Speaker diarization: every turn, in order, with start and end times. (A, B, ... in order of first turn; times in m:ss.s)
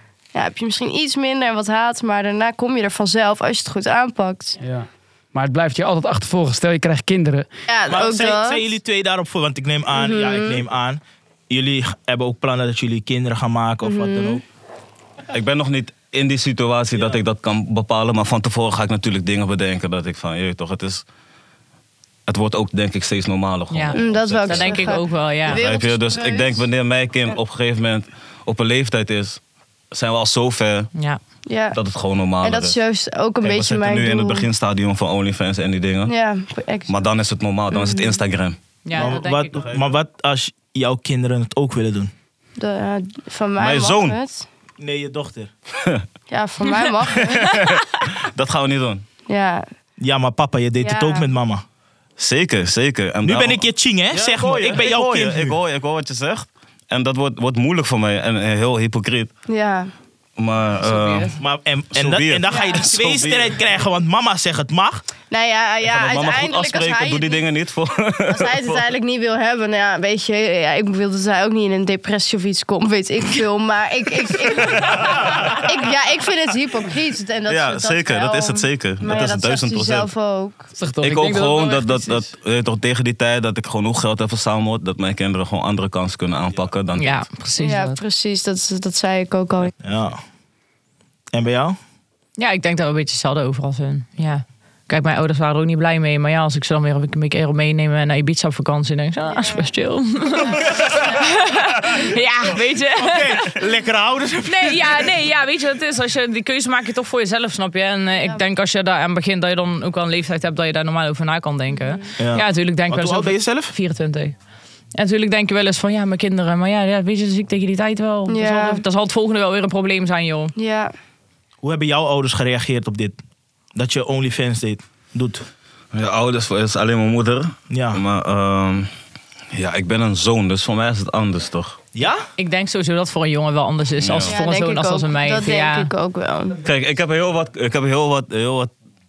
0:00.3-0:04.6 A
0:04.6-0:07.5 B
0:07.7-0:08.6 A
0:07.9-0:14.4 C
0:09.9-0:10.6 A
0:13.8-0:14.4 A
0:15.3-0:21.0 D
0:22.3-0:29.4 D
0:23.7-0:25.6 E
0:23.9-0:26.7 A
0:29.9-0:30.9 D
0:30.9-0:31.2 E
0:31.4-0:31.8 A
0:31.7-0:32.8 D
0:32.4-0:34.5 A
0:33.4-0:36.1 D
0:36.0-0:37.1 A
0:36.9-0:39.9 D
0:37.7-0:38.2 A
0:38.8-0:39.6 E
0:38.9-0:42.1 C
0:42.6-0:44.4 A
0:43.6-0:44.2 D
0:44.8-0:45.5 C
0:45.8-0:46.1 D
0:46.3-0:47.6 A
0:47.1-0:49.0 D
0:49.3-0:49.7 A
0:50.0-0:51.6 C
0:50.8-0:51.3 A
0:52.2-0:59.3 D
0:53.2-0:55.6 C
0:59.5-0:59.9 A
1:00.4-1:01.4 D
1:00.8-1:01.4 E
1:01.4-1:05.0 C
1:01.9-1:03.6 D
1:02.5-1:02.8 A
1:05.3-1:07.5 A
1:05.8-1:08.8 D
1:08.3-1:20.7 A
1:14.6-1:15.7 D
1:17.5-1:20.1 D
1:20.8-1:22.3 B
1:21.0-1:27.2 D
1:27.0-1:28.0 E
1:27.6-1:29.7 A
1:29.8-1:30.2 C
1:31.3-1:31.8 C
1:32.4-1:43.5 E
1:39.2-1:39.7 A
1:40.3-1:40.8 A
1:40.8-1:41.0 C
1:43.0-1:45.1 C
1:44.4-1:54.3 E
1:51.7-1:52.0 A
1:52.2-1:53.7 C
1:54.9-2:00.5 E
1:58.3-1:58.8 A
2:00.6-2:00.9 A
2:01.6-2:03.2 C
2:03.7-2:05.4 C
2:05.9-2:08.9 D
2:07.7-2:08.0 C
2:09.5-2:11.8 D
2:11.9-2:12.2 C
2:12.4-2:15.9 E
2:14.0-2:14.4 D
2:14.2-2:16.6 A
2:16.6-2:18.7 D